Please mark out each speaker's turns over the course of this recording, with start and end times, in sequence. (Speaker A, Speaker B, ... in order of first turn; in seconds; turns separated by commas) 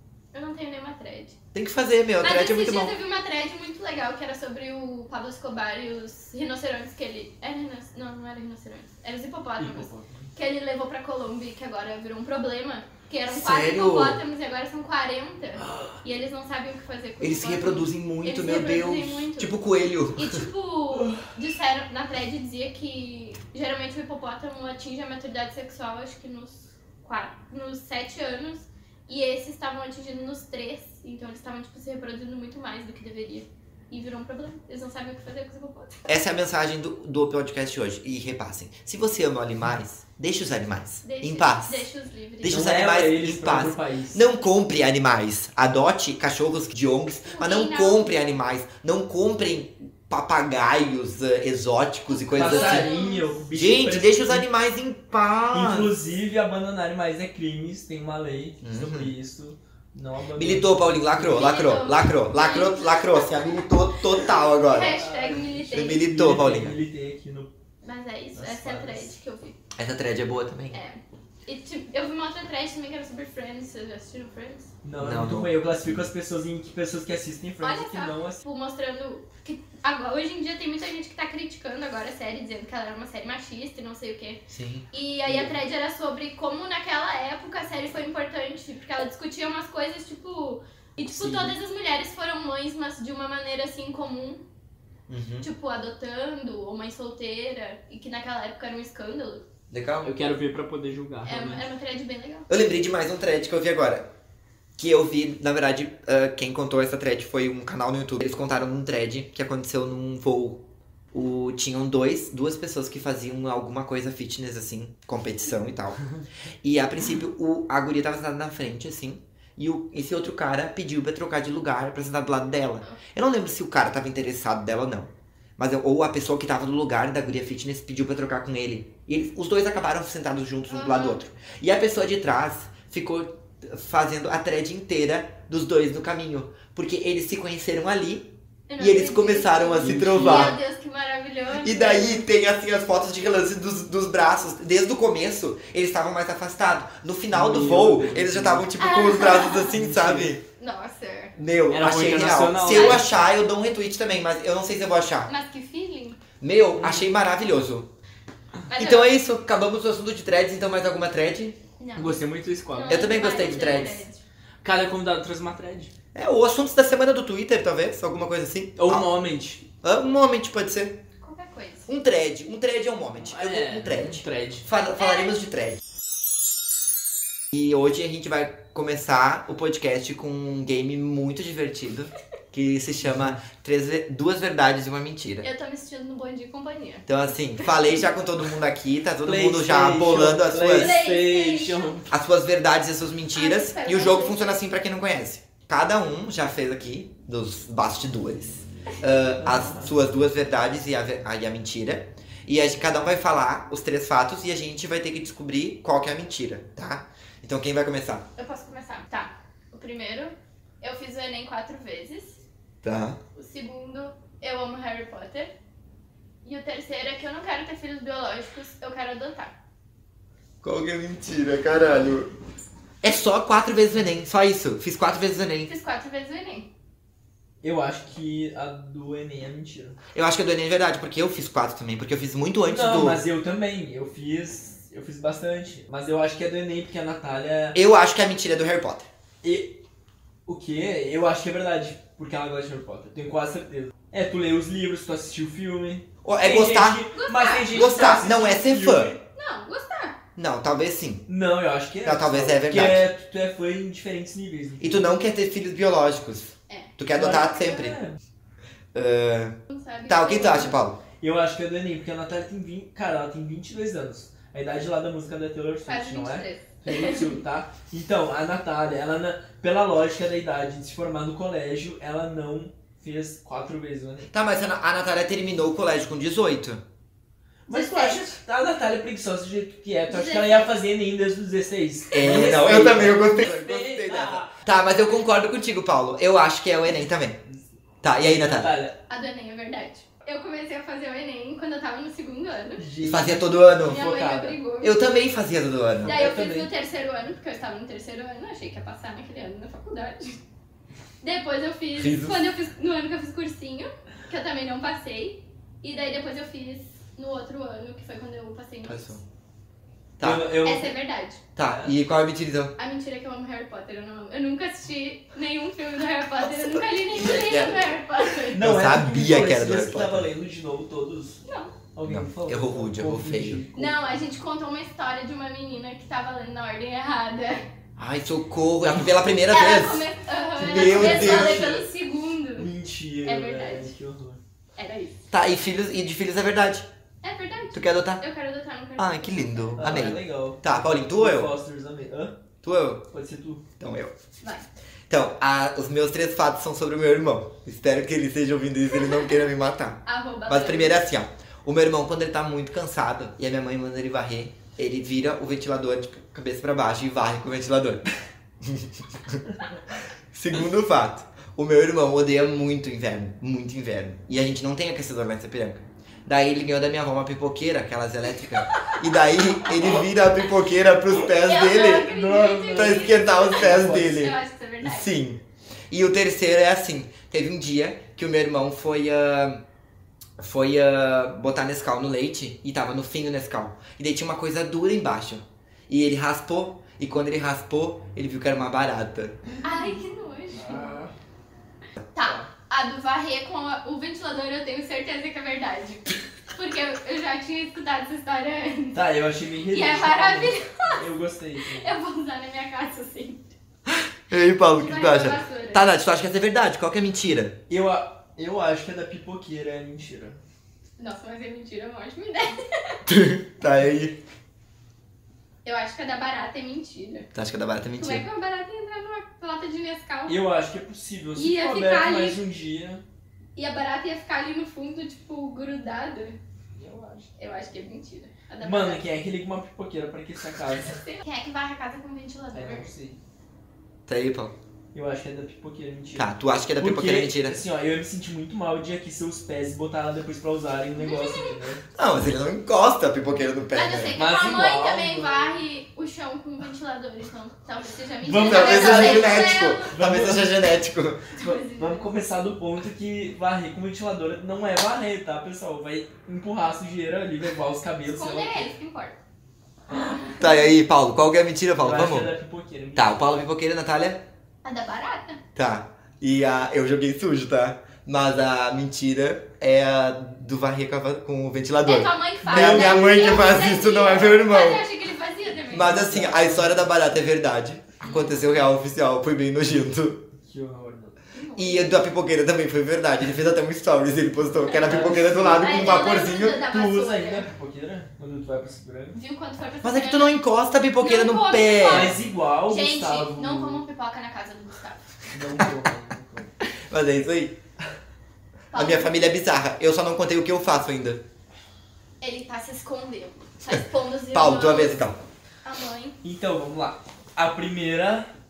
Speaker A: 0.3-1.3, Speaker B: 1.5-2.9, Speaker A: 2.2-19.6, Speaker C: 9.6-10.3, Speaker B: 13.3-14.2, Speaker C: 15.7-15.9, Speaker B: 17.2-20.4, Speaker A: 20.1-35.9, Speaker B: 36.1-41.9, Speaker A: 41.0-42.7, Speaker B: 42.4-52.9, Speaker C: 42.4-44.2, Speaker A: 47.3-48.1, Speaker A: 52.1-53.4, Speaker C: 52.3-54.5, Speaker B: 53.5-56.0, Speaker C: 55.5-61.4, Speaker B: 58.6-59.1, Speaker B: 60.3-65.0, Speaker A: 61.3-63.7, Speaker A: 64.3-66.0, Speaker C: 64.9-67.5, Speaker B: 65.7-66.8, Speaker A: 67.8-69.6, Speaker C: 68.3-69.1, Speaker B: 69.8-70.8, Speaker A: 70.7-74.7, Speaker C: 74.8-78.4, Speaker B: 75.0-76.0, Speaker A: 77.6-94.4, Speaker B: 84.5-84.8, Speaker C: 85.3-85.5, Speaker C: 91.1-91.5, Speaker B: 95.1-95.5, Speaker A: 95.4-99.4, Speaker B: 99.7-100.1, Speaker C: 100.0-101.6, Speaker A: 101.2-102.5, Speaker B: 102.5-104.1, Speaker B: 104.8-116.0, Speaker B: 116.6-140.6, Speaker A: 130.7-131.2, Speaker A: 138.7-142.2, Speaker C: 139.8-140.5, Speaker B: 141.6-150.4, Speaker C: 147.3-148.7, Speaker A: 148.7-149.8, Speaker C: 149.7-150.3, Speaker A: 150.5-151.3, Speaker B: 151.4-155.3, Speaker C: 151.7-153.1, Speaker A: 152.6-153.1, Speaker A: 155.2-156.2, Speaker B: 156.4-157.9, Speaker C: 156.8-157.2, Speaker A: 158.7-159.1, Speaker B: 158.7-161.6, Speaker A: 161.8-164.2, Speaker C: 161.9-163.4, Speaker B: 162.9-164.1, Speaker C: 164.6-165.9, Speaker B: 166.1-169.1, Speaker C: 168.8-169.6, Speaker B: 169.8-171.0, Speaker A: 171.2-171.9, Speaker B: 171.9-175.8, Speaker C: 173.2-174.7, Speaker A: 175.0-175.3, Speaker B: 177.5-185.5, Speaker C: 183.1-183.3, Speaker A: 185.4-188.0, Speaker B: 187.1-190.9, Speaker C: 189.2-192.1, Speaker A: 190.7-191.9, Speaker B: 192.1-208.2, Speaker A: 193.3-194.6, Speaker C: 199.4-199.9, Speaker A: 208.3-212.4, Speaker B: 212.8-213.2, Speaker A: 213.3-215.5, Speaker A: 216.4-219.6, Speaker B: 220.6-222.3, Speaker B: 223.0-225.7, Speaker A: 225.6-226.7, Speaker C: 227.6-229.9, Speaker B: 230.1-233.2, Speaker C: 232.6-237.8, Speaker B: 237.7-239.1, Speaker C: 239.4-239.8, Speaker C: 240.4-249.2, Speaker B: 246.2-247.1, Speaker A: 247.1-248.4, Speaker B: 247.7-249.1, Speaker A: 249.2-250.2, Speaker B: 250.3-251.2, Speaker C: 251.3-255.1, Speaker B: 252.0-253.1, Speaker B: 254.8-258.0, Speaker C: 257.1-258.2, Speaker B: 258.9-259.6, Speaker A: 259.7-260.8, Speaker B: 260.1-261.0, Speaker C: 261.2-274.3, Speaker A: 265.8-267.3, Speaker B: 274.3-276.8, Speaker C: 277.7-284.6, Speaker A: 277.7-278.2, Speaker A: 280.1-280.7, Speaker B: 282.1-287.4, Speaker B: 288.0-288.8, Speaker C: 288.1-289.0, Speaker A: 289.1-292.9, Speaker C: 292.8-294.6, Speaker B: 293.0-294.0, Speaker A: 293.8-295.1, Speaker B: 294.8-296.2, Speaker C: 296.0-296.7, Speaker A: 296.0-300.4, Speaker A: 301.2-309.1, Speaker B: 301.9-302.5, Speaker B: 308.8-309.2, Speaker B: 310.2-310.5, Speaker C: 310.2-310.9, Speaker A: 310.5-311.4, Speaker B: 311.6-312.7, Speaker C: 311.6-311.9, Speaker A: 312.8-318.7, Speaker B: 317.2-317.9, Speaker B: 318.5-320.3, Speaker C: 318.5-321.4, Speaker A: 321.4-321.8, Speaker C: 321.9-324.0, Speaker B: 322.0-323.7, Speaker A: 323.7-327.6, Speaker B: 328.0-330.1, Speaker A: 329.4-332.7, Speaker C: 330.6-331.8, Speaker B: 330.6-331.7, Speaker C: 332.6-334.4, Speaker A: 333.2-333.9, Speaker A: 334.8-335.1, Speaker B: 335.3-336.9, Speaker A: 337.2-339.9, Speaker B: 337.7-338.2, Speaker B: 339.0-341.5, Speaker C: 339.8-342.4, Speaker B: 342.6-343.0, Speaker C: 343.1-343.6, Speaker B: 343.8-344.1, Speaker A: 344.4-344.6, Speaker B: 345.1-358.1, Speaker A: 348.9-349.4, Speaker A: 350.0-351.0, Speaker B: 358.6-372.1, Speaker A: 368.6-369.0, Speaker A: 371.3-375.1, Speaker C: 372.0-374.2, Speaker B: 372.7-379.6, Speaker B: 380.4-389.4, Speaker A: 389.6-391.0, Speaker C: 390.5-391.1, Speaker A: 392.1-399.0, Speaker C: 392.2-392.5, Speaker C: 398.9-401.9, Speaker A: 399.7-401.0, Speaker A: 401.7-403.5, Speaker B: 403.9-407.6, Speaker A: 404.7-405.9, Speaker C: 407.7-410.4, Speaker A: 411.0-413.0, Speaker B: 413.1-414.2, Speaker A: 415.6-417.3, Speaker B: 417.3-418.2, Speaker A: 417.9-420.4, Speaker C: 420.3-423.0, Speaker A: 421.4-422.4, Speaker A: 423.6-426.4, Speaker C: 426.7-427.3, Speaker A: 427.4-429.0, Speaker C: 428.6-430.9, Speaker A: 430.9-432.9, Speaker C: 432.5-433.2, Speaker B: 434.1-434.5, Speaker C: 434.9-441.8, Speaker B: 436.1-437.6, Speaker A: 440.9-441.5, Speaker B: 441.9-444.2, Speaker A: 443.7-449.9, Speaker C: 444.1-445.5, Speaker C: 448.2-450.6, Speaker B: 448.4-451.3, Speaker A: 451.4-452.1, Speaker C: 451.4-458.7, Speaker A: 458.1-459.2, Speaker A: 460.0-460.7, Speaker B: 460.4-462.3, Speaker C: 461.8-463.4, Speaker B: 462.9-464.2, Speaker A: 464.6-465.4, Speaker B: 465.5-474.8, Speaker A: 471.8-475.9, Speaker C: 472.4-473.6, Speaker B: 475.7-480.2, Speaker C: 475.7-476.9, Speaker A: 478.0-478.7, Speaker C: 480.4-481.2, Speaker A: 481.3-482.0, Speaker B: 481.6-486.6, Speaker A: 484.6-487.5, Speaker C: 484.8-489.2, Speaker A: 489.1-490.4, Speaker B: 489.8-492.1, Speaker A: 491.0-495.1, Speaker C: 491.8-493.8, Speaker C: 495.3-496.5, Speaker B: 496.6-497.6, Speaker A: 498.7-499.3, Speaker B: 498.7-501.2, Speaker A: 502.2-505.0, Speaker B: 504.3-505.2, Speaker A: 505.6-506.1, Speaker C: 506.2-508.3